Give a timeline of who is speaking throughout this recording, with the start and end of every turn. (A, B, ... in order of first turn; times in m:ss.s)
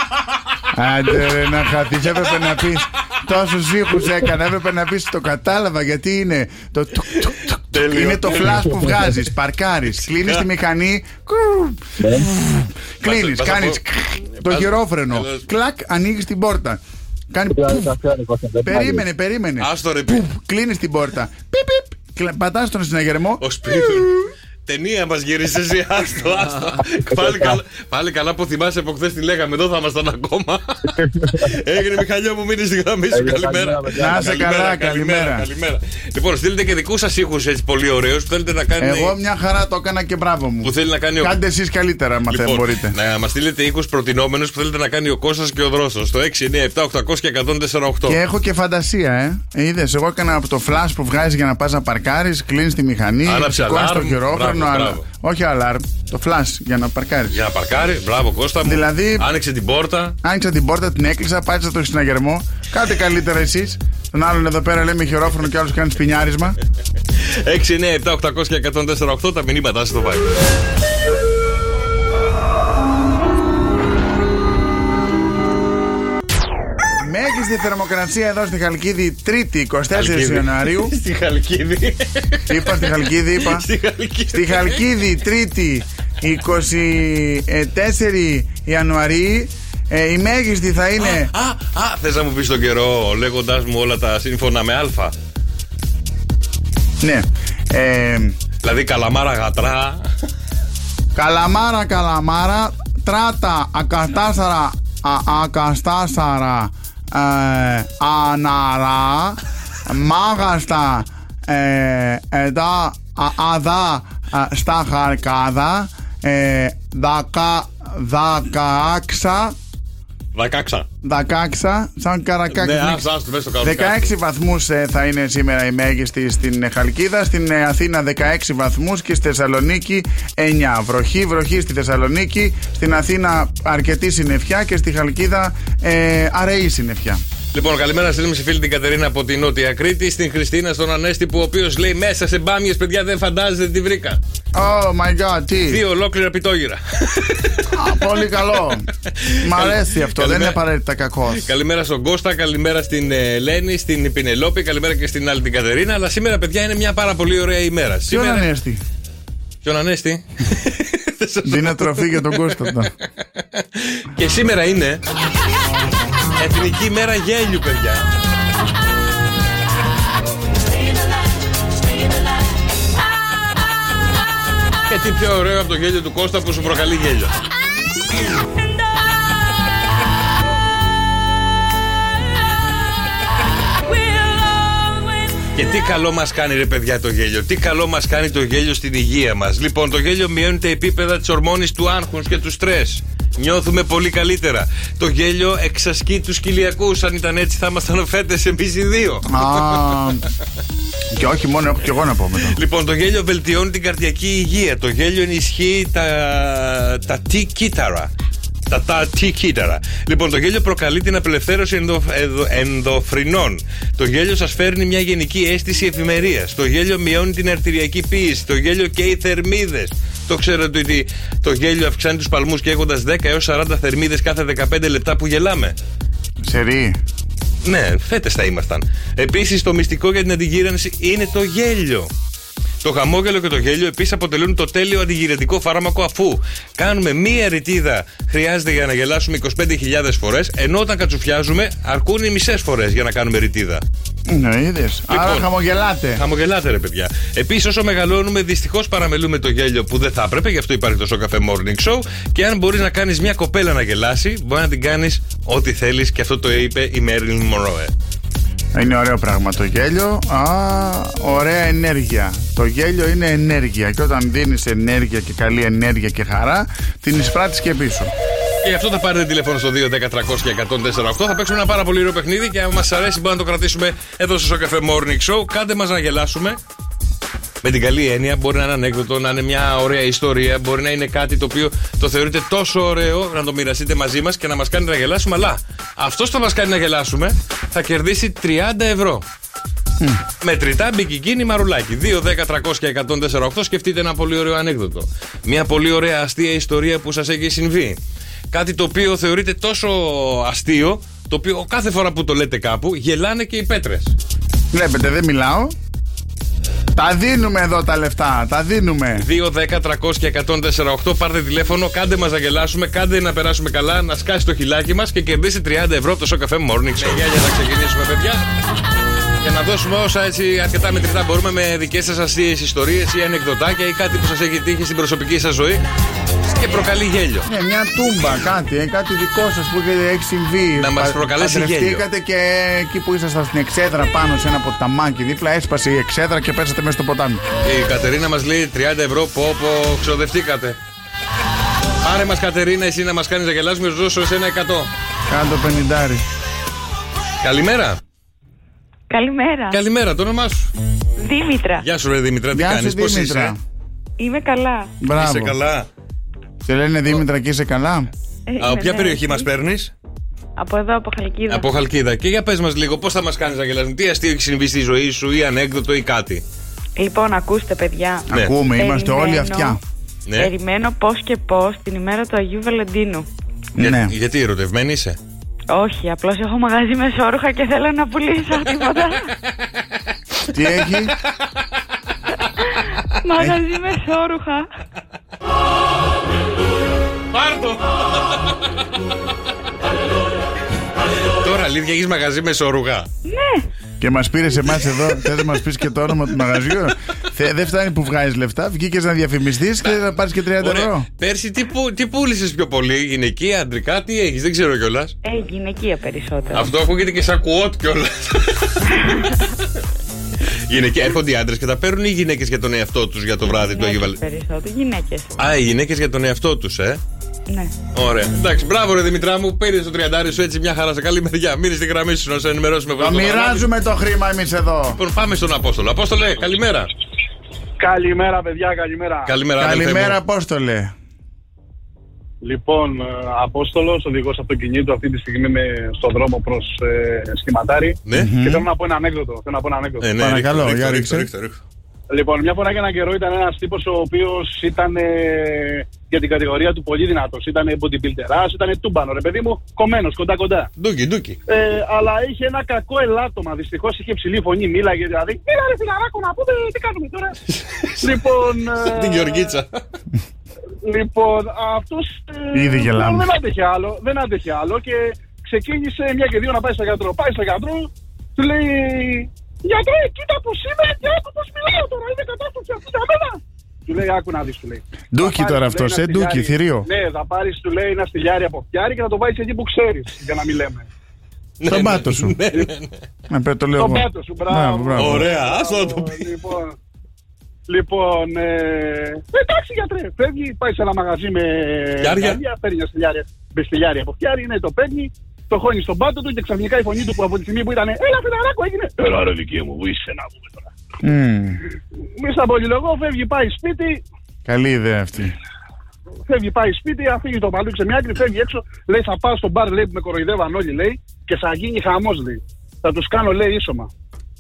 0:00.7-0:17.8 A
0:07.7-0:08.8 B
0:10.2-0:10.4 B
0:12.0-0:12.3 C
0:13.0-0:13.8 B
0:14.4-0:15.5 B
0:17.5-0:19.0 C
0:18.6-0:24.3 A
0:19.6-0:20.3 B
0:23.4-0:24.1 B
0:24.7-0:39.2 B
0:27.2-0:27.6 C
0:31.0-0:31.4 C
0:33.1-0:34.3 C
0:34.0-0:35.5 A
0:38.8-0:43.0 A
0:40.6-0:41.4 B
0:42.3-0:48.2 B
0:48.1-0:57.4 A
0:53.2-0:55.0 B
0:57.3-1:00.2 B
0:58.6-0:59.3 A
1:00.2-1:06.6 A
1:07.2-1:10.3 B
1:17.0-1:20.9 A
1:19.9-1:22.8 B
1:22.5-1:23.7 A
1:23.4-1:24.8 B
1:24.3-1:31.3 A
1:31.0-1:35.1 B
1:37.0-1:38.4 A
1:38.6-1:40.1 B
1:41.2-1:59.6 A
2:00.4-2:00.9 B
2:01.0-2:03.1 A
2:02.5-2:04.1 B
2:03.6-2:17.2 A
2:17.5-2:24.2 B
2:24.5-2:25.8 A
2:25.7-2:27.7 B
2:27.7-2:28.9 A
2:29.2-2:30.6 B
2:29.4-2:31.5 A
2:31.3-2:38.5 B
2:38.1-2:38.8 A
2:39.6-2:42.7 B
2:41.4-2:42.9 A
2:43.4-2:45.0 B
2:46.4-2:48.1 B
2:54.9-2:57.3 B
3:05.5-3:19.9 B
3:19.3-3:20.3 A
3:21.1-3:22.6 A
3:22.5-3:28.1 B
3:28.7-3:45.8 B
3:46.4-3:47.0 A
3:47.6-3:52.1 B
3:52.8-4:03.8 B
4:04.3-4:06.2 A
4:05.1-4:05.5 B
4:06.2-4:17.9 B
4:18.7-4:28.1 A
4:28.6-4:36.6 B
4:37.6-4:49.2 B
4:50.4-4:58.0 B
4:58.5-5:04.2 B
5:04.7-5:05.8 A
5:07.0-5:09.3 A
5:09.2-5:18.5 B
5:19.4-5:25.8 B
5:26.5-5:27.5 B
5:27.4-5:37.4 A
5:30.8-5:32.0 B
5:37.6-5:40.8 B
5:42.0-5:44.9 B
5:45.3-5:46.2 A
5:47.4-5:48.0 B
5:49.1-5:49.8 D
5:49.7-5:50.7 B
5:51.2-5:51.9 D
5:51.8-5:53.5 B
5:52.5-5:53.6 A
5:54.2-5:54.9 D
5:55.0-5:55.6 A
5:55.2-5:55.9 B
5:56.6-5:58.1 A
5:58.5-5:59.5 D
5:58.6-5:59.9 B
6:00.6-6:01.7 D
6:01.5-6:06.4 B
6:07.0-6:09.8 D
6:08.3-6:09.8 A
6:10.3-6:10.5 B
6:10.4-6:13.3 D
6:13.8-6:14.1 A
6:13.8-6:15.2 B
6:15.7-6:19.3 D
6:20.5-6:21.1 A
6:23.2-6:24.7 D
6:27.3-6:27.8 B
6:31.4-6:33.1 B
6:33.2-6:33.6 D
6:34.0-6:41.1 A
6:39.8-6:40.1 B
6:40.6-6:45.1 B
6:45.2-6:46.7 D
6:46.5-6:48.8 B
6:49.0-6:49.4 D
6:50.7-6:54.2 B
6:53.5-6:55.4 D
6:55.4-6:57.0 B
6:57.9-7:03.7 B
7:03.0-7:05.0 A
7:05.0-7:06.9 B
7:07.8-7:09.4 E
7:09.3-7:10.2 B
7:09.6-7:10.9 A
7:12.4-7:20.1 E
7:18.1-7:18.3 B
7:18.1-7:18.7 A
7:20.0-7:21.6 B
7:20.2-7:21.3 A
7:22.1-7:30.7 E
7:30.8-7:31.4 B
7:31.5-7:37.4 E
7:37.5-7:38.2 B
7:38.0-7:39.6 E
7:38.8-7:39.8 B
7:40.8-8:00.9 E
7:42.5-7:43.2 A
7:55.1-7:56.9 A
8:01.6-8:02.9 B
8:01.7-8:02.4 A
8:03.3-8:05.3 A
8:03.8-8:06.8 E
8:05.0-8:06.2 B
8:07.7-8:20.7 E
8:12.0-8:12.4 B
8:21.0-8:21.6 A
8:22.2-8:24.0 E
8:24.4-8:25.4 A
8:26.3-8:33.9 E